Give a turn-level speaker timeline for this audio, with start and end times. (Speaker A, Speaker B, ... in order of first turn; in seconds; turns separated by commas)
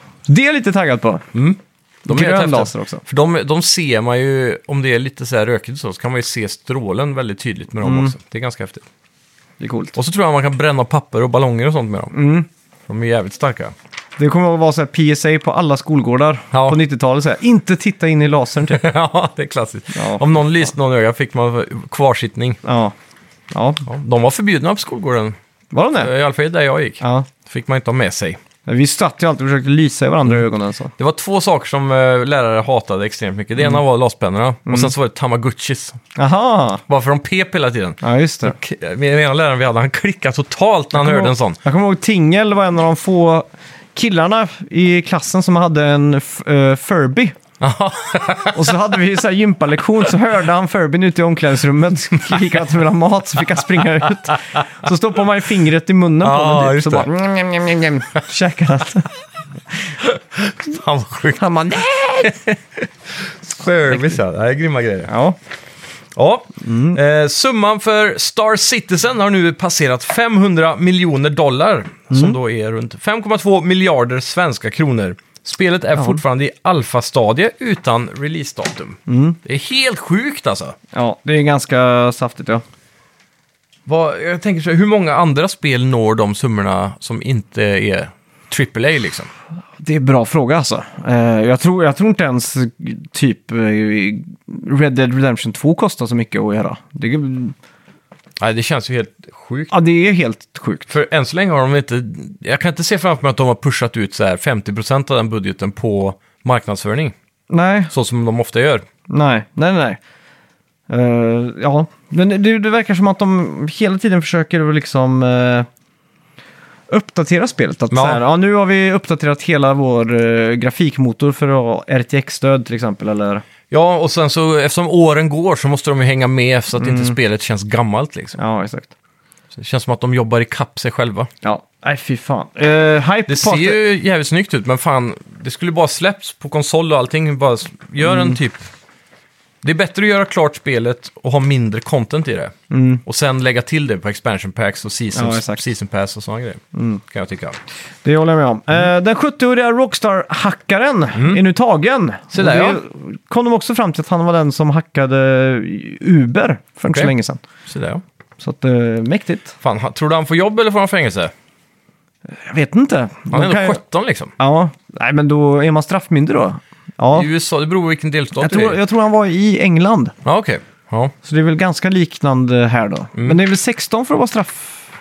Speaker A: 0.3-1.3, Speaker B: 1.3-8.9, Speaker A: 2.1-3.0, Speaker A: 7.8-8.2, Speaker A: 9.6-10.0, Speaker B: 10.0-12.2, Speaker A: 12.1-12.5, Speaker B: 12.9-13.7, Speaker A: 14.2-18.9, Speaker B: 16.5-16.8, Speaker B: 18.7-22.6, Speaker A: 19.9-20.2, Speaker A: 22.6-22.9, Speaker A: 23.5-23.9, Speaker B: 23.9-25.4, Speaker A: 25.7-26.1, Speaker B: 26.0-28.4, Speaker A: 27.0-27.3, Speaker A: 28.7-30.9, Speaker B: 31.0-36.0, Speaker A: 34.7-34.9, Speaker A: 36.2-36.8, Speaker B: 36.9-41.6, Speaker A: 38.0-38.5, Speaker A: 41.0-47.4, Speaker B: 47.6-48.8, Speaker A: 48.5-59.1, Speaker B: 56.2-57.1, Speaker B: 60.0-61.5, Speaker A: 61.4-62.4, Speaker B: 62.2-65.1, Speaker A: 65.1-65.4, Speaker B: 66.2-80.8, Speaker A: 66.6-67.0, Speaker A: 72.1-72.4, Speaker A: 76.0-76.2, Speaker A: 79.1-79.4, Speaker A: 80.9-82.6, Speaker B: 83.9-89.3, Speaker A: 89.8-97.5, Speaker B: 98.4-99.7, Speaker A: 99.7-100.9, Speaker B: 100.9-107.2, Speaker A: 107.5-107.9, Speaker B: 107.9-108.8, Speaker A: 109.1-110.0, Speaker A: 110.9-115.7, Speaker A: 116.9-123.4, Speaker B: 117.9-118.2, Speaker B: 123.7-128.4, Speaker A: 126.8-127.2, Speaker A: 128.4-128.9, Speaker B: 129.5-131.3, Speaker A: 131.4-133.8, Speaker B: 133.3-138.7, Speaker A: 138.0-138.4, Speaker B: 139.6-142.5, Speaker A: 142.7-143.0, Speaker B: 143.1-147.6, Speaker A: 145.1-145.6, Speaker A: 146.7-147.0, Speaker A: 148.0-157.4, Speaker B: 151.2-151.4, Speaker B: 152.3-152.8, Speaker B: 157.7-158.0, Speaker A: 158.4-159.6, Speaker B: 159.6-161.3, Speaker A: 162.3-163.8, Speaker B: 163.3-164.3, Speaker A: 164.4-167.3, Speaker B: 167.1-168.8, Speaker A: 168.4-170.2, Speaker B: 170.2-171.1, Speaker A: 171.2-174.9